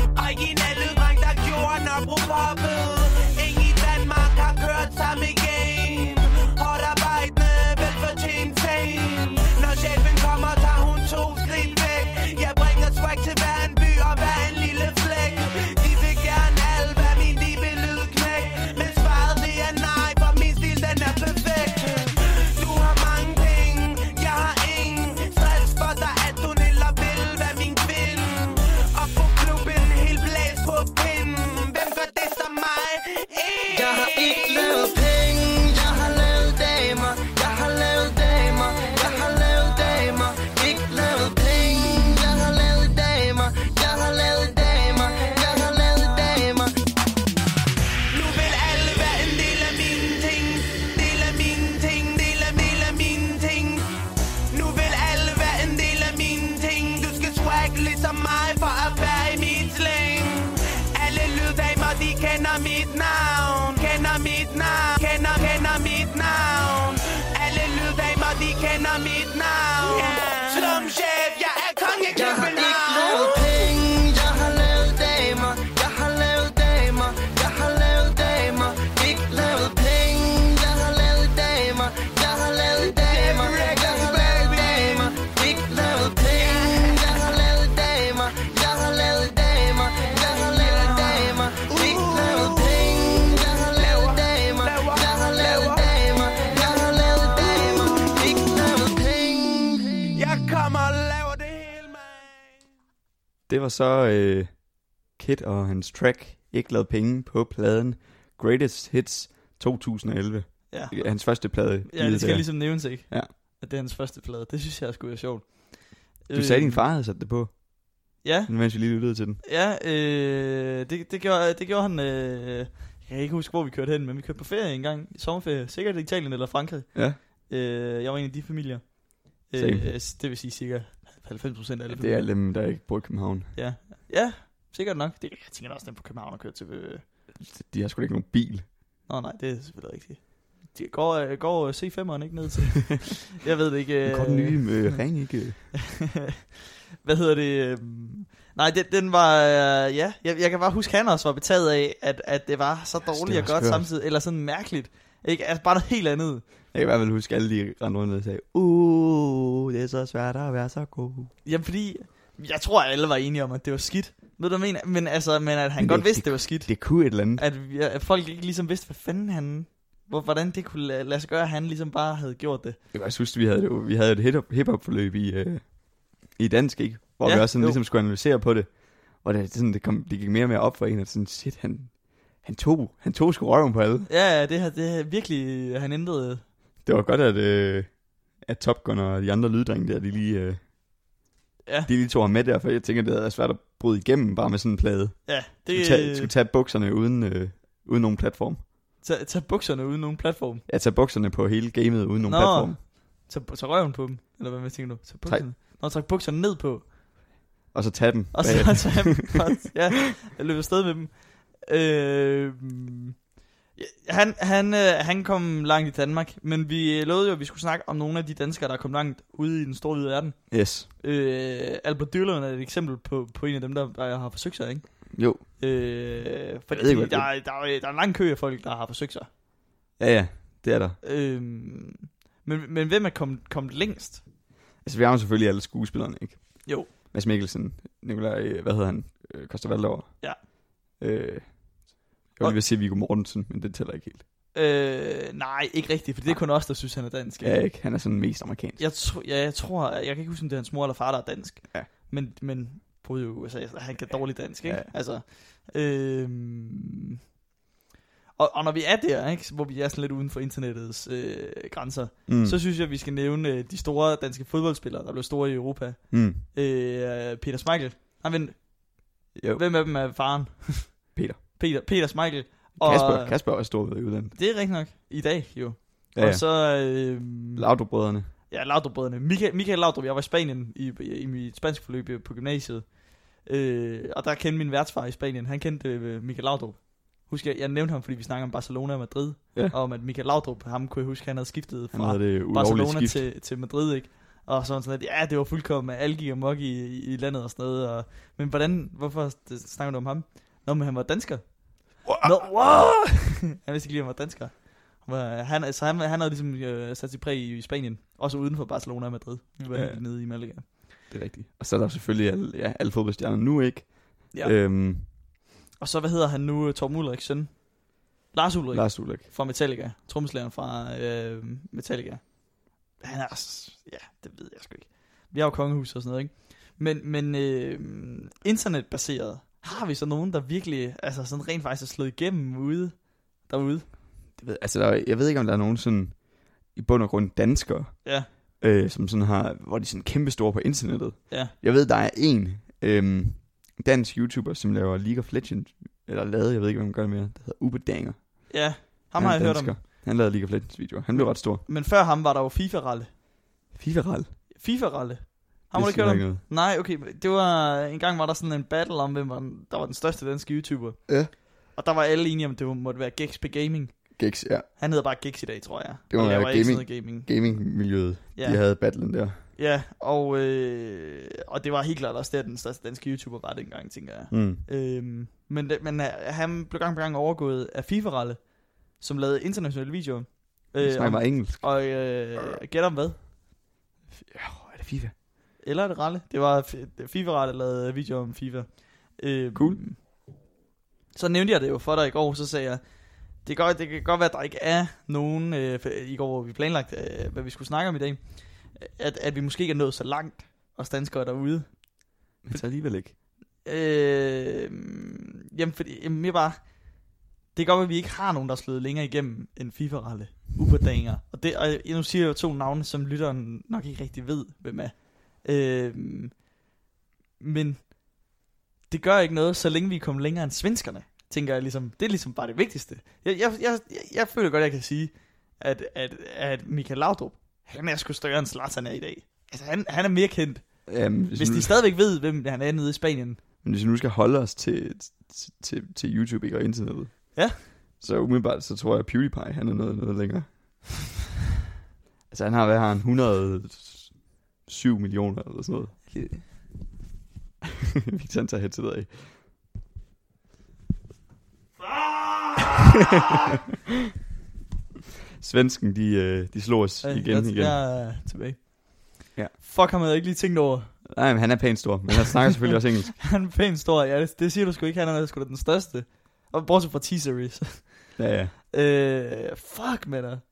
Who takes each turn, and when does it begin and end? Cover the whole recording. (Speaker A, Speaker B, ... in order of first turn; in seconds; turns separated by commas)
Speaker A: 0.2-34.7, Speaker B: 33.7-46.7, Speaker A: 48.1-53.9, Speaker A: 54.5-73.5, Speaker B: 70.5-70.9, Speaker B: 72.1-100.1, Speaker A: 83.0-85.0, Speaker A: 86.3-87.0, Speaker A: 90.5-92.4, Speaker A: 93.8-95.8, Speaker A: 100.1-102.6, Speaker C: 103.5-113.3, Speaker D: 110.7-116.8, Speaker C: 116.3-119.4, Speaker D: 118.2-118.7, Speaker D: 119.4-132.3, Speaker C: 126.9-127.2, Speaker C: 129.6-129.9, Speaker C: 131.9-133.6, Speaker D: 133.6-137.1, Speaker C: 137.4-138.7, Speaker D: 139.1-145.0, Speaker C: 144.1-145.7, Speaker D: 145.8-146.4, Speaker D: 146.9-156.4, Speaker C: 153.1-153.9, Speaker C: 156.7-161.3, Speaker D: 161.4-172.8, Speaker C: 165.8-167.4, Speaker C: 172.9-184.1, Speaker D: 177.2-177.8, Speaker D: 184.1-186.4, Speaker C: 186.8-190.6, Speaker C: 191.9-198.7, Speaker D: 195.3-196.3, Speaker D: 199.0-200.7, Speaker C: 200.7-202.8, Speaker D: 202.2-206.9, Speaker C: 207.7-209.5, Speaker D: 208.3-213.2, Speaker D: 213.8-229.3, Speaker C: 220.5-220.9, Speaker C: 225.1-225.5, Speaker C: 226.7-227.3, Speaker C: 230.0-231.0, Speaker D: 231.0-234.2, Speaker C: 234.8-244.2, Speaker D: 236.7-236.9, Speaker D: 244.5-247.6, Speaker C: 247.4-248.8, Speaker D: 248.8-257.2, Speaker D: 258.4-273.4, Speaker C: 262.3-262.6, Speaker C: 266.1-266.4, Speaker C: 269.4-269.6, Speaker C: 271.1-271.4, Speaker C: 272.8-274.4, Speaker D: 274.3-277.7, Speaker C: 276.1-276.4, Speaker C: 277.6-278.3, Speaker D: 278.5-310.9, Speaker C: 291.9-293.3, Speaker C: 302.1-302.3, Speaker C: 309.7-315.1, Speaker D: 315.8-333.9, Speaker C: 318.7-319.3, Speaker C: 334.3-351.6, Speaker D: 348.5-349.8, Speaker D: 351.1-353.1, Speaker C: 353.7-354.4, Speaker D: 354.5-367.8, Speaker C: 355.7-356.4, Speaker C: 364.2-364.7, Speaker C: 366.1-369.4, Speaker D: 368.3-368.6, Speaker D: 369.5-383.3, Speaker C: 374.3-374.6, Speaker C: 380.8-381.9, Speaker C: 384.2-385.1, Speaker D: 385.6-390.0, Speaker C: 389.5-389.8, Speaker D: 391.1-392.8, Speaker D: 393.4-402.6, Speaker C: 402.4-403.2, Speaker D: 403.6-407.0, Speaker D: 407.5-416.5, Speaker D: 417.4-418.1, Speaker D: 418.9-433.4, Speaker C: 430.9-431.8, Speaker C: 433.6-440.9, Speaker C: 442.3-446.5, Speaker D: 446.1-446.8, Speaker C: 448.1-449.3, Speaker C: 455.4-457.8, Speaker D: 457.0-461.1, Speaker C: 461.1-463.2, Speaker D: 463.2-470.4, Speaker C: 468.2-468.5